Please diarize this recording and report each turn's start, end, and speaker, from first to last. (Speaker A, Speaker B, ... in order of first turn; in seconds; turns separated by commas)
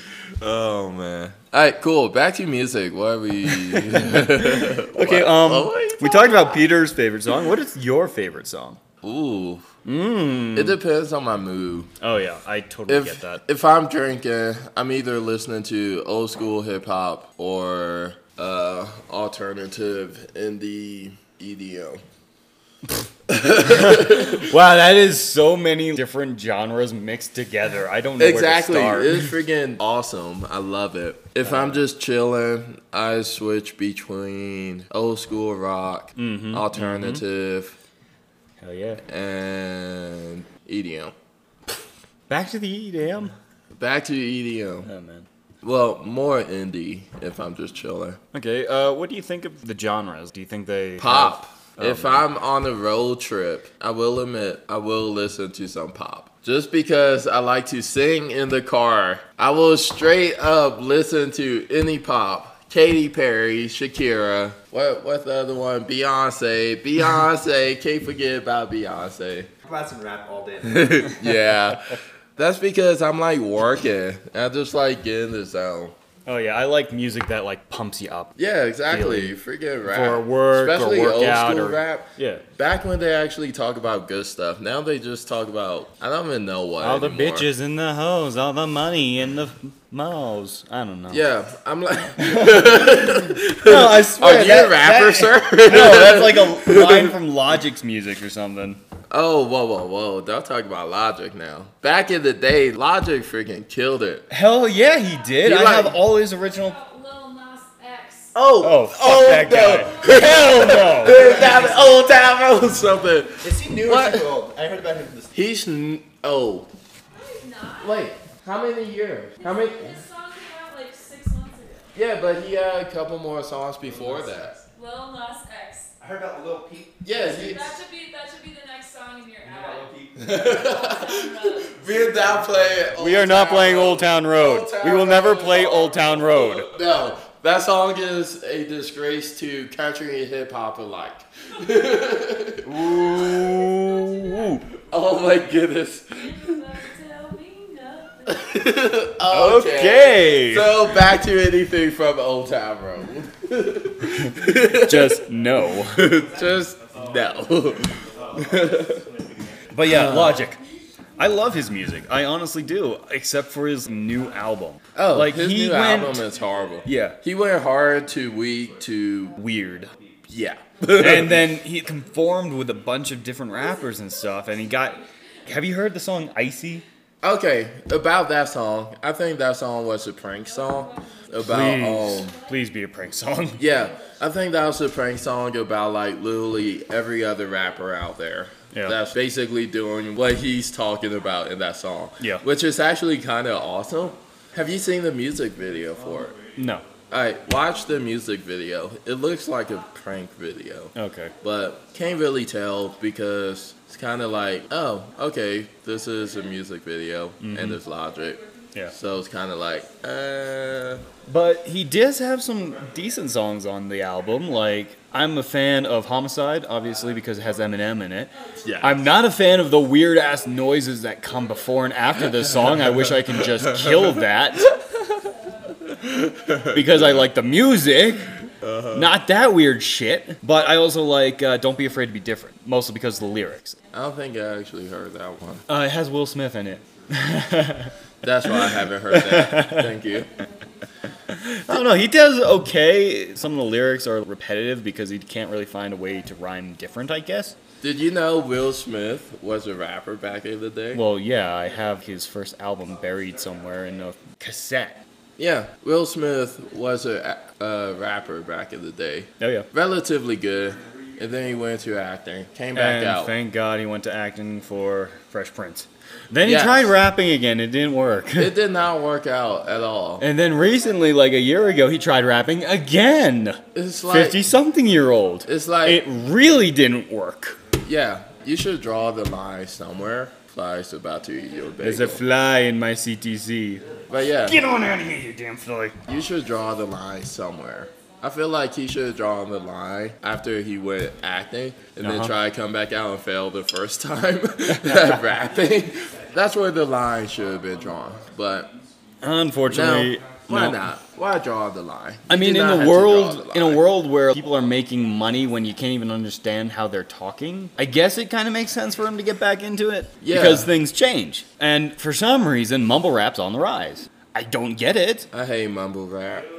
Speaker A: 0.4-6.6, Speaker B: 3.7-8.8, Speaker A: 9.0-9.7, Speaker B: 9.9-10.8, Speaker A: 10.5-11.9, Speaker B: 12.0-13.4, Speaker A: 12.9-22.0, Speaker A: 23.3-24.5, Speaker B: 23.7-29.3, Speaker A: 28.2-37.8, Speaker B: 31.5-31.8, Speaker B: 36.2-37.2, Speaker B: 38.6-39.0, Speaker A: 39.1-41.1, Speaker B: 42.3-43.3, Speaker A: 43.8-44.9, Speaker B: 44.9-45.3, Speaker A: 45.6-48.2, Speaker B: 48.3-52.2, Speaker A: 51.0-69.5, Speaker C: 69.7-71.1, Speaker A: 70.6-75.9, Speaker B: 76.3-78.4, Speaker A: 78.4-87.5, Speaker B: 78.9-79.4, Speaker B: 79.9-82.4, Speaker B: 86.8-91.2, Speaker A: 91.1-97.2, Speaker B: 92.2-98.8, Speaker A: 99.1-104.3, Speaker B: 104.3-106.8, Speaker D: 104.9-105.3, Speaker A: 105.4-106.0, Speaker D: 106.2-108.3, Speaker A: 108.3-114.3, Speaker B: 108.6-111.2, Speaker D: 109.7-110.9, Speaker C: 111.1-112.0, Speaker C: 113.4-115.3, Speaker A: 115.3-116.7, Speaker D: 117.1-118.1, Speaker A: 117.8-120.0, Speaker D: 119.4-121.9, Speaker A: 122.0-124.6, Speaker D: 124.7-125.9, Speaker C: 126.0-127.3, Speaker A: 127.0-127.8, Speaker D: 127.2-131.8, Speaker C: 129.4-130.2, Speaker A: 130.2-143.2, Speaker B: 133.0-136.7, Speaker B: 142.7-144.6, Speaker D: 142.9-144.8, Speaker A: 144.9-146.5, Speaker D: 146.1-148.8, Speaker A: 148.3-155.2, Speaker B: 149.3-150.8, Speaker B: 154.6-156.2, Speaker A: 155.9-159.1, Speaker B: 159.7-160.6, Speaker A: 159.8-160.5, Speaker B: 161.2-166.3, Speaker A: 164.9-169.4, Speaker B: 166.8-167.2, Speaker B: 169.4-169.9, Speaker A: 170.3-171.5, Speaker B: 170.9-176.8, Speaker D: 174.0-175.1, Speaker A: 177.2-182.3, Speaker D: 180.4-182.7, Speaker B: 181.4-183.6, Speaker D: 183.6-184.2, Speaker A: 183.6-196.4, Speaker B: 196.6-196.8, Speaker A: 197.1-211.0, Speaker B: 200.9-201.3, Speaker B: 207.4-207.8, Speaker D: 208.2-209.1, Speaker D: 209.6-209.9, Speaker B: 211.3-224.7, Speaker D: 218.3-220.3, Speaker A: 218.6-219.1, Speaker A: 223.8-224.1, Speaker D: 224.7-226.7, Speaker A: 226.0-227.3, Speaker B: 226.7-228.3, Speaker D: 227.7-228.5, Speaker A: 228.6-229.1, Speaker B: 228.9-233.8, Speaker A: 233.9-235.6, Speaker B: 235.7-237.9, Speaker A: 238.2-240.3, Speaker B: 239.1-239.9, Speaker D: 240.1-241.2, Speaker B: 241.3-247.6, Speaker A: 247.8-251.0, Speaker B: 250.9-255.0, Speaker A: 255.4-263.3, Speaker B: 259.4-259.7, Speaker B: 262.8-268.6, Speaker A: 266.4-267.0, Speaker A: 268.4-270.3, Speaker B: 270.2-277.6, Speaker A: 273.8-274.4, Speaker A: 275.4-276.0, Speaker A: 277.8-282.2, Speaker B: 281.8-283.9, Speaker A: 284.1-284.6, Speaker B: 284.4-286.0, Speaker A: 286.1-298.7, Speaker B: 292.0-292.4, Speaker B: 294.7-295.2, Speaker B: 299.2-300.8, Speaker A: 299.7-303.9, Speaker B: 302.3-315.3, Speaker A: 310.2-310.7, Speaker A: 315.3-316.5